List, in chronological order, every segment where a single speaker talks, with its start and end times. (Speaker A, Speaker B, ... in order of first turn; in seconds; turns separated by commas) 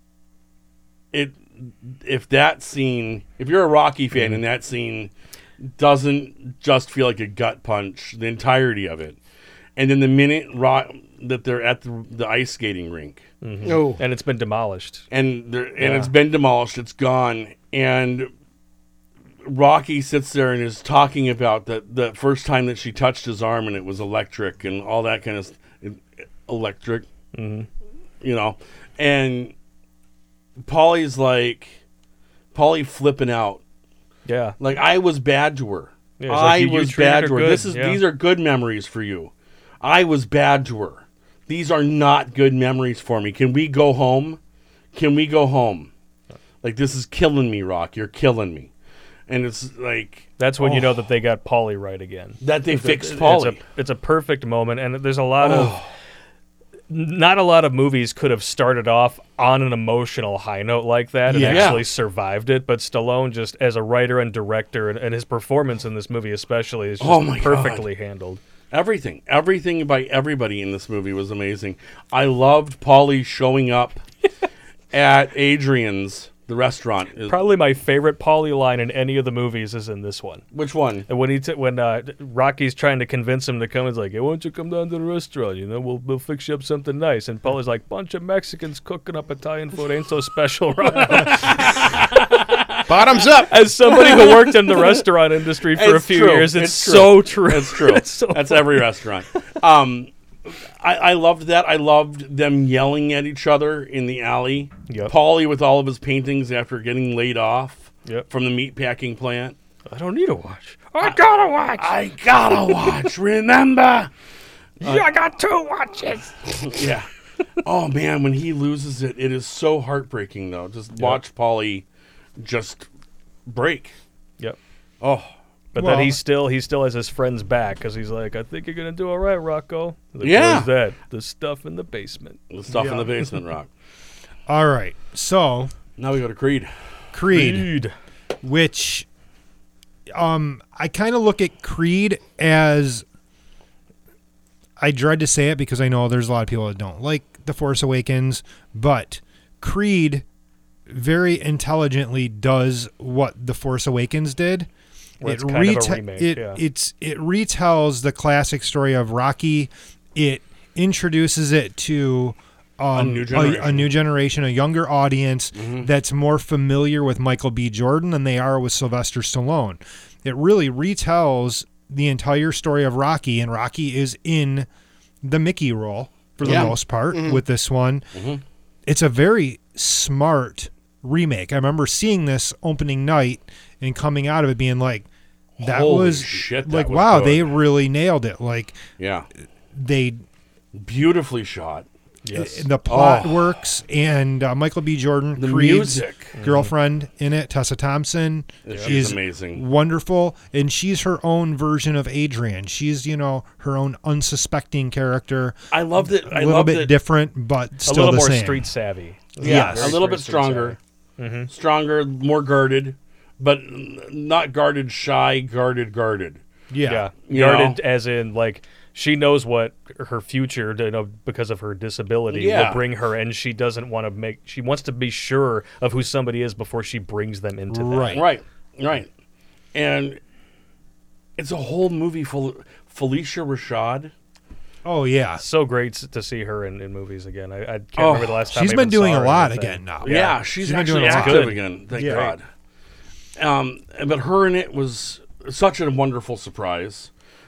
Speaker A: 1.1-9.2, Speaker B: 4.2-4.4, Speaker A: 9.8-13.2, Speaker B: 13.4-15.0, Speaker C: 13.6-14.0, Speaker A: 15.1-18.3, Speaker B: 15.8-16.1, Speaker A: 19.4-27.1, Speaker B: 27.3-27.7, Speaker A: 28.2-29.5, Speaker A: 30.6-31.8, Speaker A: 32.5-33.6, Speaker B: 34.3-34.5, Speaker A: 34.6-39.3, Speaker B: 36.2-38.0, Speaker A: 39.8-44.4, Speaker A: 44.9-45.9, Speaker A: 46.6-48.7, Speaker A: 49.3-51.0, Speaker B: 50.4-55.8, Speaker A: 52.4-53.6, Speaker A: 55.4-55.9, Speaker B: 56.9-68.4, Speaker D: 61.3-61.8, Speaker A: 61.4-61.9, Speaker A: 67.0-67.8, Speaker A: 68.7-74.0, Speaker A: 74.9-77.4, Speaker B: 77.3-80.4, Speaker A: 80.5-81.1, Speaker B: 81.1-92.0, Speaker A: 91.1-93.1, Speaker C: 92.9-93.5, Speaker B: 93.5-98.8, Speaker A: 93.9-95.0, Speaker A: 95.7-109.6, Speaker B: 104.9-105.1, Speaker B: 109.9-111.9, Speaker A: 111.7-114.1, Speaker A: 114.8-115.1, Speaker B: 114.8-116.6, Speaker A: 116.5-117.1, Speaker A: 117.6-121.8, Speaker A: 122.4-122.9, Speaker A: 123.5-124.0, Speaker A: 125.0-125.3, Speaker B: 125.7-132.9, Speaker D: 125.8-126.2, Speaker A: 130.2-130.7, Speaker A: 132.5-133.7, Speaker D: 132.7-133.1, Speaker D: 134.5-135.7, Speaker A: 136.0-136.7, Speaker D: 137.1-137.7, Speaker B: 137.3-137.9, Speaker D: 138.4-139.1, Speaker D: 140.1-143.1, Speaker D: 144.8-150.2, Speaker D: 150.9-154.7, Speaker B: 155.2-156.6, Speaker D: 155.2-174.7, Speaker A: 162.9-163.9, Speaker A: 165.6-165.9, Speaker D: 175.2-178.1, Speaker A: 176.4-176.8, Speaker C: 176.4-177.4, Speaker A: 178.1-178.4, Speaker D: 178.9-185.1, Speaker A: 185.6-187.5, Speaker D: 185.6-188.8, Speaker A: 189.0-189.3, Speaker D: 189.7-190.2, Speaker A: 190.7-191.9, Speaker B: 192.2-192.7, Speaker D: 192.3-205.6, Speaker A: 192.9-193.6, Speaker A: 195.4-196.4, Speaker B: 196.3-196.7, Speaker A: 198.7-199.6, Speaker A: 205.7-207.0, Speaker D: 206.1-208.7, Speaker B: 207.8-211.5, Speaker A: 209.4-210.8, Speaker D: 209.4-210.0, Speaker A: 211.5-216.4, Speaker D: 216.7-217.1, Speaker B: 216.8-228.2, Speaker A: 217.3-217.8, Speaker A: 222.3-222.8, Speaker D: 227.7-228.2, Speaker A: 228.1-229.1, Speaker A: 229.7-230.2, Speaker A: 231.4-234.1, Speaker D: 234.8-235.4, Speaker B: 235.4-242.4, Speaker A: 238.0-238.4, Speaker D: 238.5-242.3, Speaker A: 240.0-242.4, Speaker A: 243.4-247.1